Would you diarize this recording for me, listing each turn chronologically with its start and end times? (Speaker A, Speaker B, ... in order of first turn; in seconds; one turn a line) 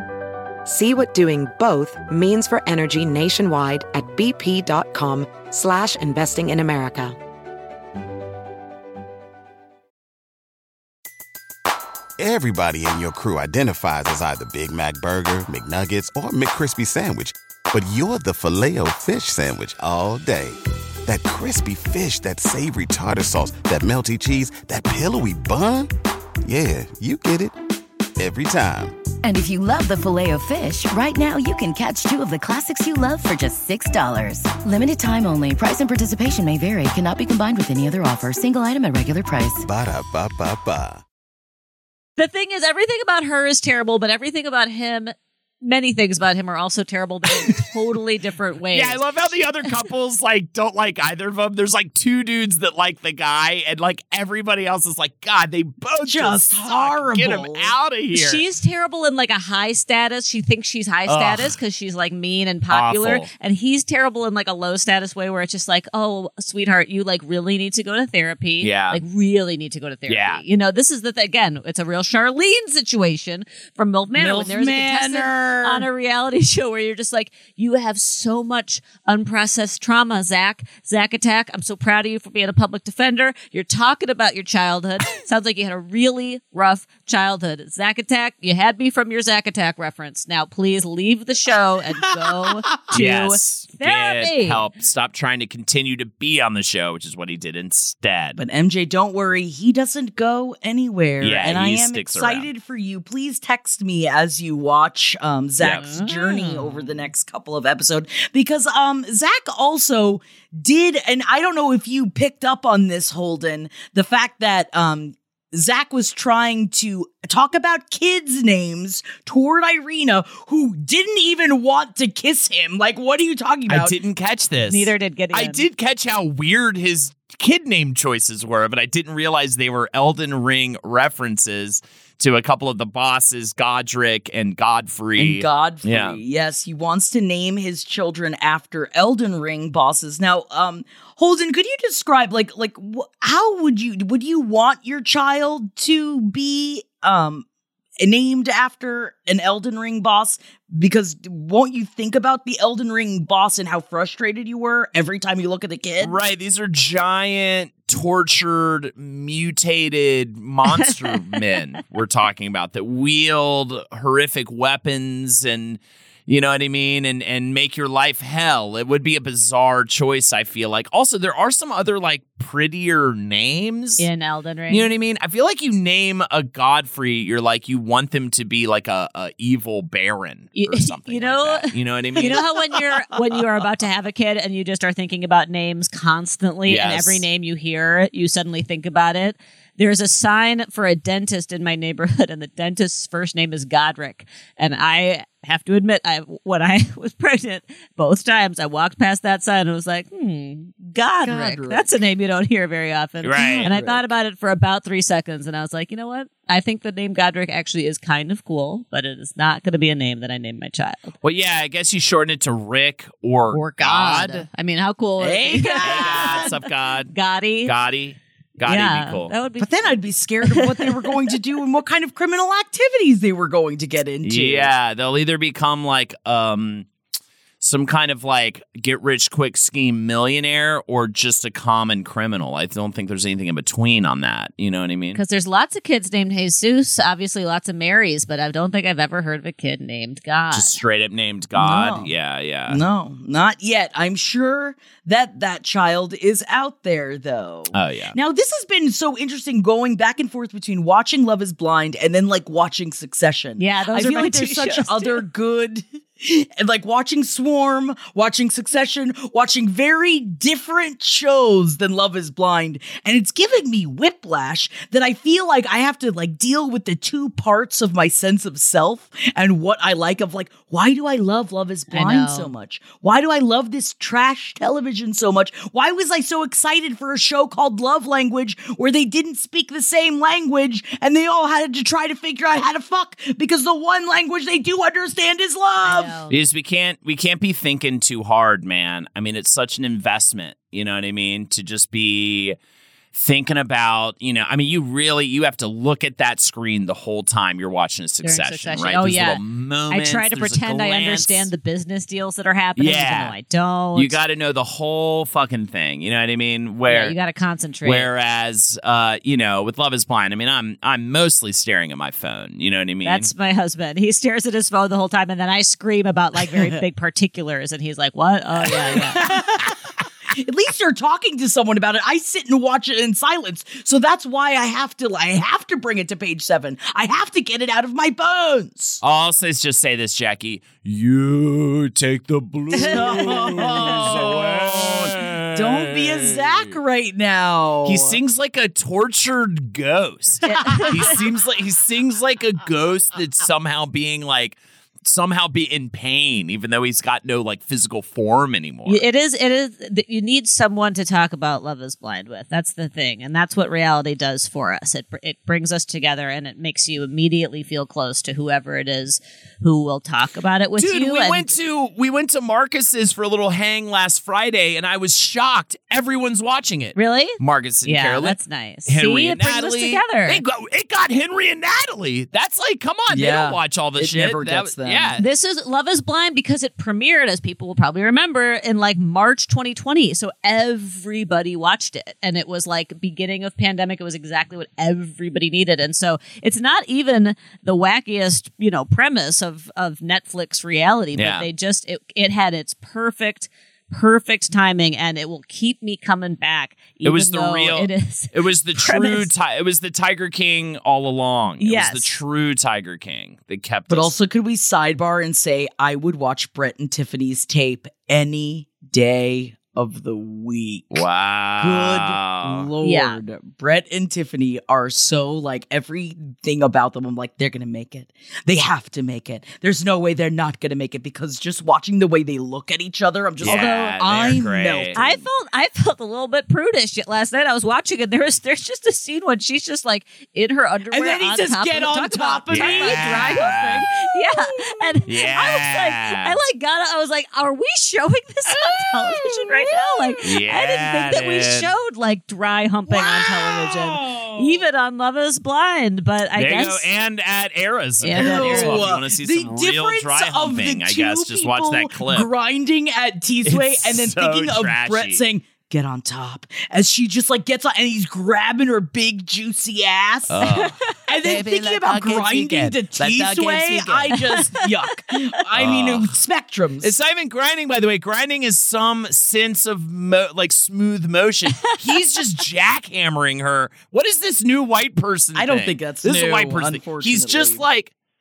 Speaker A: 0.7-7.2
Speaker B: 12.2-25.9
Speaker B: 26.4-27.5
Speaker B: 28.2-29.0
Speaker C: 29.2-39.7
Speaker B: 39.6-41.0
Speaker D: 42.2-49.0
Speaker E: 48.7-58.4
Speaker F: 56.0-57.8
Speaker D: 58.1-94.6
Speaker E: 61.1-61.5
Speaker E: 62.7-63.3
Speaker E: 68.6-69.0
Speaker E: 70.1-70.4
Speaker F: 74.2-75.9
Speaker F: 92.7-93.0
Speaker E: 92.9-98.4
Speaker F: 98.4-124.0
Speaker E: 101.2-102.5
Speaker E: 105.6-106.1
Speaker D: 105.7-106.6
Speaker E: 123.7-136.2
Speaker D: 124.7-125.6
Speaker F: 135.2-147.4
Speaker F: 148.0-156.2
Speaker E: 156.0-174.1
Speaker D: 160.7-161.5
Speaker D: 174.0-174.9
Speaker E: 174.7-182.4
Speaker D: 180.6-211.1
Speaker E: 186.7-187.2
Speaker F: 201.2-201.9
Speaker E: 203.2-203.7
Speaker F: 203.3-204.1
Speaker E: 211.2-214.5
Speaker D: 213.5-216.6
Speaker F: 215.2-216.6
Speaker E: 215.8-217.1
Speaker D: 217.1-217.7
Speaker E: 217.7-219.3
Speaker D: 218.6-221.1
Speaker F: 219.6-224.7
Speaker E: 224.2-226.9
Speaker E: 227.6-235.2
Speaker D: 235.1-240.8
Speaker E: 240.5-242.8
Speaker F: 241.6-242.1
Speaker F: 242.7-286.2
Speaker E: 247.7-248.2
Speaker D: 253.6-255.2
Speaker D: 271.9-272.5
Speaker D: 285.8-286.3
Speaker E: 286.3-292.6
Speaker E: 293.1-301.5
Speaker D: 298.2-304.2
Speaker E: 302.8-303.4
Speaker E: 303.9-307.2
Speaker D: 306.9-308.1
Speaker E: 307.8-313.3
Speaker D: 313.0-319.4
Speaker F: 318.9-319.8
Speaker F: 320.3-329.0
Speaker E: 329.0-336.8
Speaker D: 332.7-333.9
Speaker F: 332.8-338.2
Speaker E: 337.9-349.0
Speaker D: 340.4-341.2
Speaker F: 340.7-341.1
Speaker D: 348.9-361.5
Speaker E: 360.8-375.2
Speaker D: 367.0-370.4
Speaker F: 373.1-375.2
Speaker D: 375.2-399.3
Speaker E: 391.2-391.5
Speaker E: 397.0-404.1
Speaker D: 401.6-402.2
Speaker F: 403.9-411.0
Speaker E: 410.9-412.7
Speaker F: 411.6-425.3
Speaker D: 412.8-413.2
Speaker D: 423.4-423.9
Speaker E: 423.4-425.0
Speaker D: 425.0-446.9
Speaker F: 430.9-435.1
Speaker E: 432.5-433.9
Speaker E: 435.1-436.4
Speaker F: 439.0-440.2
Speaker E: 440.2-441.7
Speaker F: 442.9-444.6
Speaker E: 446.4-452.3
Speaker D: 448.0-448.9
Speaker F: 448.1-466.9
Speaker E: 453.4-455.2
Speaker E: 460.3-464.5
Speaker D: 460.4-460.9
Speaker D: 464.1-465.1
Speaker E: 465.5-466.1
Speaker E: 466.8-477.9
Speaker F: 475.4-477.6